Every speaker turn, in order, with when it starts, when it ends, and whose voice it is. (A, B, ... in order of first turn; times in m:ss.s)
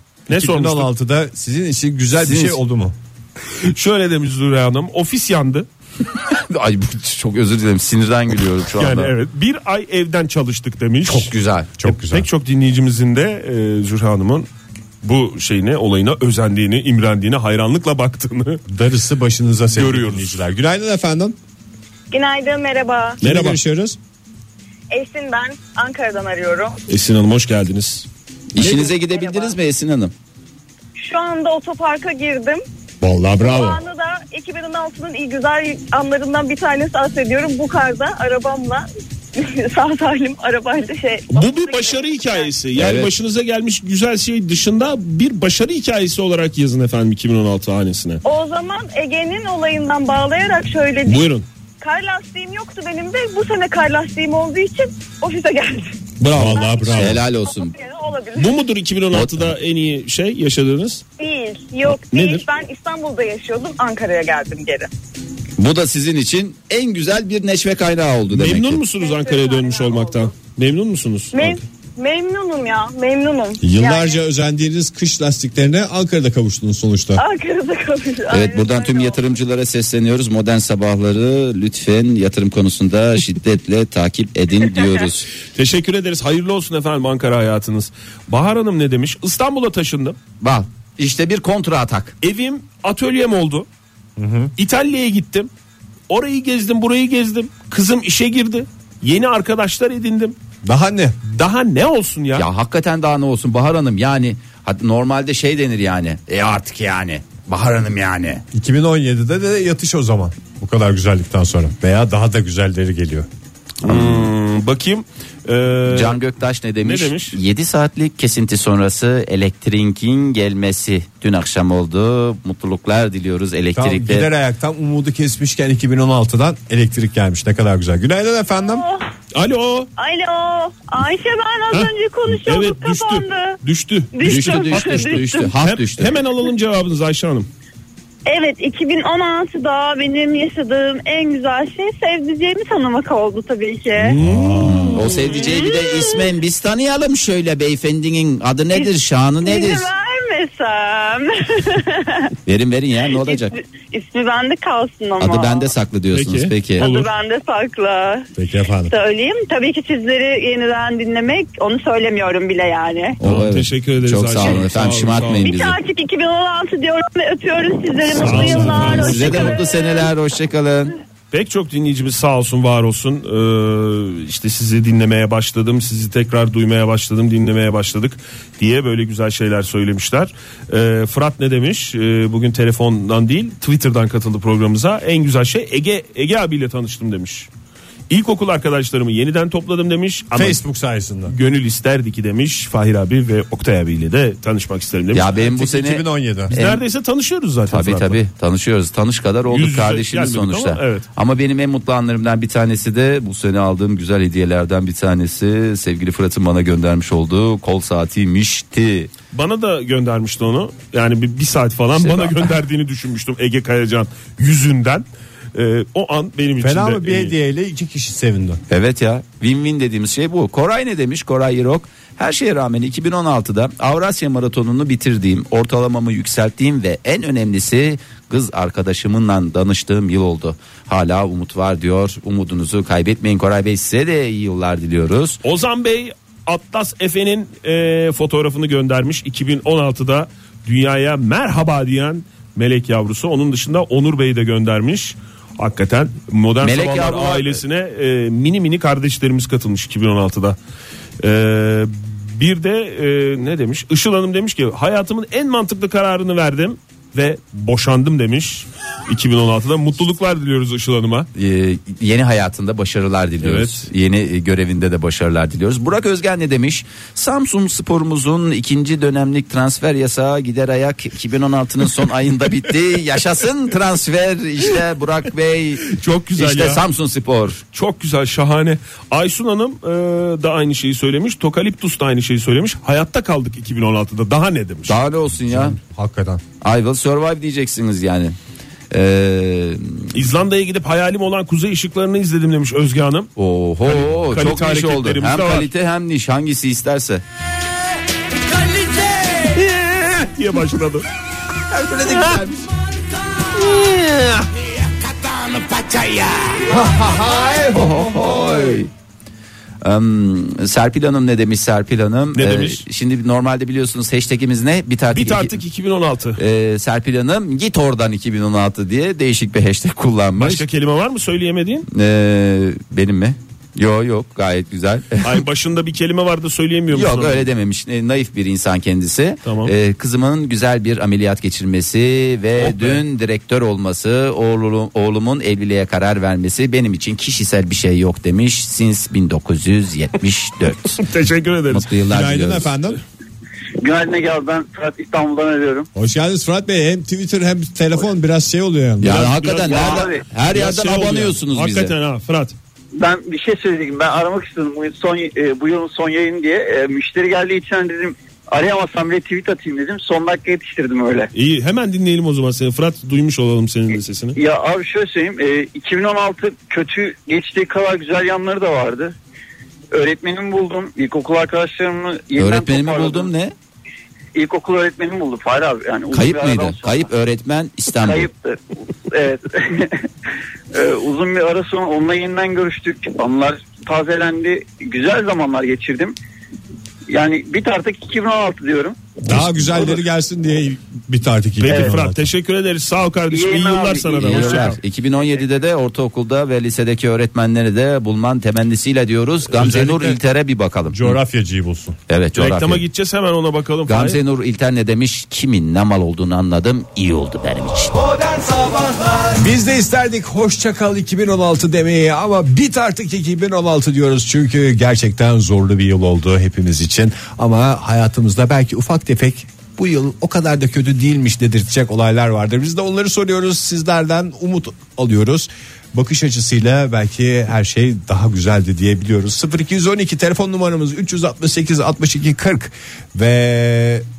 0:00.3-0:00.9 A
0:00.3-0:03.0 B
0:02.2-0:02.6 C
0:03.6-0:05.7 A
0:06.3-0:09.1 C
0:08.8-0:14.5 A
0:11.1-0:11.7 C
0:11.8-0:12.3 B
0:15.0-0:18.6 A
0:18.7-0:21.4 B
0:19.7-0:20.4 A
0:22.1-0:23.2 D
0:23.2-0:24.0 B
0:23.2-0:23.6 A
0:24.9-0:26.8 D
0:26.9-0:28.1 A
0:28.5-0:30.1 C
0:28.6-0:29.5 D
0:31.0-0:32.6 D
0:33.0-0:33.8 B
0:33.4-0:38.8 D
0:39.4-0:42.4 D
0:41.3-0:48.2 A
0:42.8-0:43.1 C
0:48.2-0:51.2 D
0:51.0-0:51.5 A
0:51.8-0:55.9 D
0:56.2-0:56.6 A
0:56.3-0:57.2 B
0:56.4-0:57.7 C
0:56.6-0:58.5 D
0:58.4-1:01.0 A
0:59.1-0:59.5 C
1:01.2-1:04.9 D
1:01.8-1:02.4 A
1:05.6-1:08.8 C
1:08.3-1:11.6 A
1:09.0-1:10.3 D
1:11.3-1:14.1 D
1:13.6-1:17.2 B
1:17.2-1:19.2 D
1:18.3-1:25.3 C
1:25.5-1:30.2 A
1:30.4-1:32.2 C
1:32.2-1:33.7 A
1:34.2-1:34.5 B
1:34.6-1:35.5 A
1:36.1-1:40.4 A
1:40.6-1:41.2 B
1:41.3-1:42.5 A
1:42.4-1:48.4 C
1:48.5-1:53.3 B
1:53.8-1:56.2 A
1:53.8-1:54.3 C
1:55.9-2:04.3 C
1:56.8-1:57.4 A
2:03.8-2:08.8 B
2:08.7-2:09.0 D
2:09.3-2:09.9 A
2:10.0-2:13.6 D
2:11.7-2:17.5 A
2:14.1-2:15.5 D
2:14.2-2:16.2 C
2:18.3-2:24.2 D
2:24.0-2:25.1 A
2:24.2-2:25.1 B
2:24.6-2:29.9 C
2:25.1-2:26.3 D
2:28.7-2:32.3 D
2:32.5-2:33.5 C
2:33.1-2:35.7 D
2:35.2-2:36.9 C
2:36.1-2:37.1 A
2:36.8-2:38.3 D
2:38.4-2:38.9 B
2:38.9-2:43.2 D
2:43.2-2:45.8 C
2:43.2-2:45.5 A
2:43.3-2:43.6 B
2:45.4-2:50.1 D
2:48.0-2:49.6 A
2:48.2-2:49.1 B
2:48.5-2:51.0 C
2:51.3-3:07.5 A
3:08.1-3:10.6 A
3:10.3-3:11.4 B
3:11.3-3:15.4 A
3:15.1-3:16.8 C
3:15.3-3:16.6 B
3:16.5-3:18.2 A
3:17.7-3:29.1 C
3:19.5-3:21.1 A
3:29.3-3:37.3 A
3:32.0-3:32.4 C
3:36.6-3:38.6 B
3:38.7-3:55.4 C
3:55.4-4:10.6 A
4:06.6-4:07.6 C
4:11.2-4:21.3 A
4:21.4-4:37.6 C
4:23.4-4:23.9 A
4:35.8-4:36.8 A
4:37.6-4:45.0 A
4:44.9-4:45.8 C
4:45.3-4:46.4 B
4:46.6-4:48.4 C
4:48.9-4:50.1 C
4:50.1-4:53.3 A
4:53.4-4:57.2 C
4:53.8-4:55.7 A
4:59.0-4:59.4 C
4:59.4-5:01.0 A
5:01.7-5:02.7 C
5:02.1-5:02.4 A
5:03.5-5:04.5 C
5:05.0-5:08.9 C
5:09.8-5:15.6 C
5:12.3-5:12.8 A
5:15.1-5:16.4 A
5:16.4-5:20.6 C
5:20.4-5:21.9 A
5:21.9-5:25.4 C
5:25.2-5:27.5 A
5:26.9-5:41.0 C
5:29.4-5:29.7 A
5:32.6-5:33.0 A
5:40.9-5:41.8 A
5:41.7-5:42.7 C
5:42.1-5:43.0 B
5:43.8-5:45.9 E
5:46.0-5:49.3 B
5:49.0-5:51.9 C
5:49.0-5:52.6 A
5:49.7-5:50.2 E
5:53.0-6:01.3 E
6:01.3-6:04.4 A
6:04.4-6:09.2 E
6:09.9-6:13.3 E
6:12.4-6:13.5 C
6:14.4-6:17.1 E
6:16.1-6:18.3 C
6:18.0-6:20.1 E
6:20.7-6:26.2 E
6:27.1-6:29.2 E
6:29.2-6:32.3 B
6:31.6-6:34.8 A
6:31.7-6:32.0 E
6:33.3-6:34.8 E
6:34.2-6:41.2 C
6:39.5-6:40.2 B
6:40.9-6:42.0 B
6:42.1-6:42.8 C
6:42.4-6:44.2 A
6:43.9-6:48.0 C
6:49.4-7:14.0 B